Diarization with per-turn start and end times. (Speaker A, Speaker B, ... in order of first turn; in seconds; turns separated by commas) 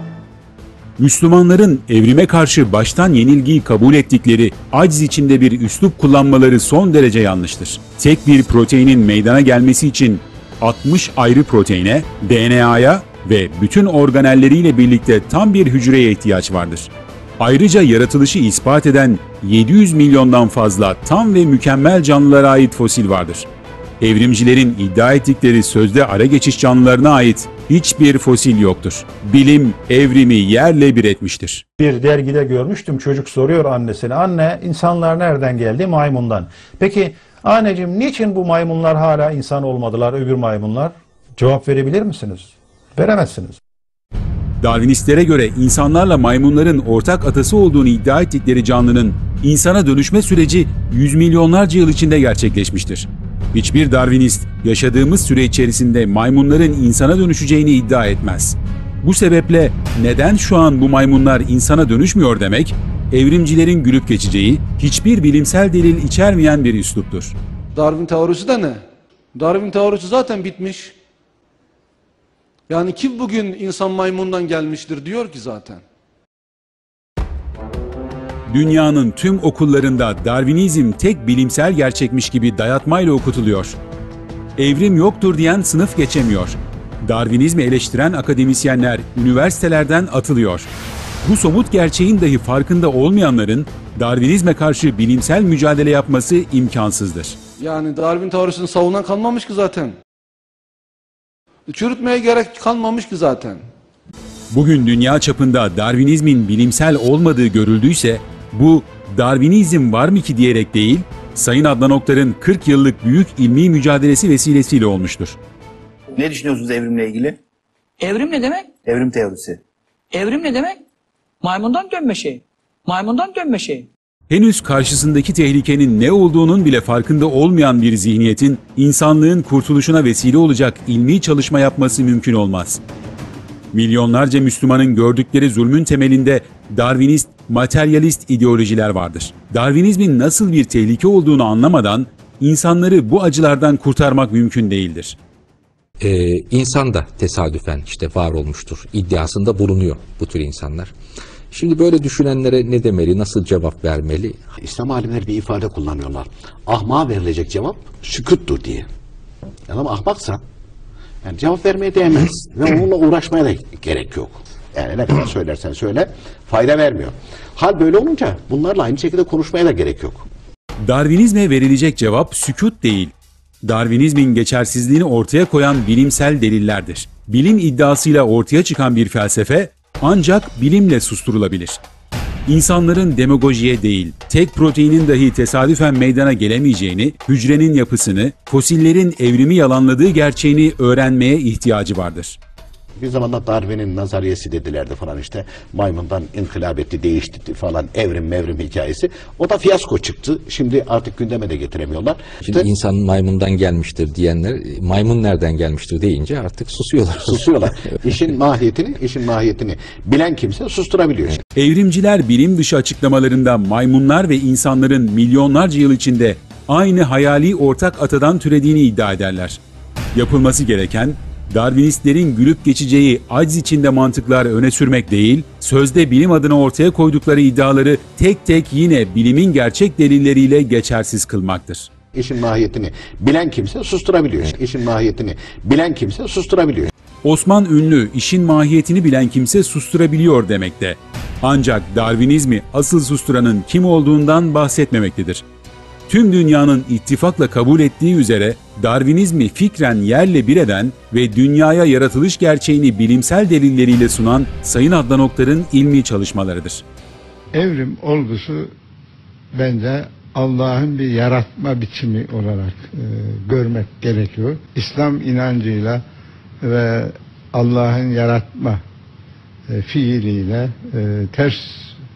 Speaker A: 1.0-23.5, Speaker A: 24.0-31.6, Speaker B: 31.8-43.6, Speaker A: 44.6-67.3, Speaker C: 67.7-68.8, Speaker C: 69.3-70.9, Speaker C: 72.7-75.8, Speaker A: 78.5-83.8, Speaker A: 84.6-90.7, Speaker A: 91.2-97.4, Speaker C: 97.6-99.9, Speaker C: 101.7-103.6, Speaker A: 104.5-115.4, Speaker D: 116.2-117.4, Speaker E: 118.0-118.7, Speaker D: 118.8-119.6, Speaker E: 120.1-120.8, Speaker E: 121.4-123.9, Speaker A: 124.3-132.8, Speaker A: 133.7-145.2, Speaker F: 146.0-150.9, Speaker F: 151.5-154.3, Speaker G: 154.6-158.9, Speaker G: 159.7-160.4, Speaker G: 161.2-170.3, Speaker A: 170.8-181.8, Speaker A: 182.5-192.4, Speaker G: 193.0-202.7, Speaker F: 202.4-208.2, Speaker G: 207.2-211.4, Speaker A: 211.5-219.6, Speaker A: 220.1-231.9, Speaker G: 232.1-236.9, Speaker A: 237.2-245.4, Speaker A: 246.1-256.8, Speaker H: 257.5-258.7, Speaker H: 259.5-266.0, Speaker H: 266.6-268.8, Speaker H: 269.7-271.9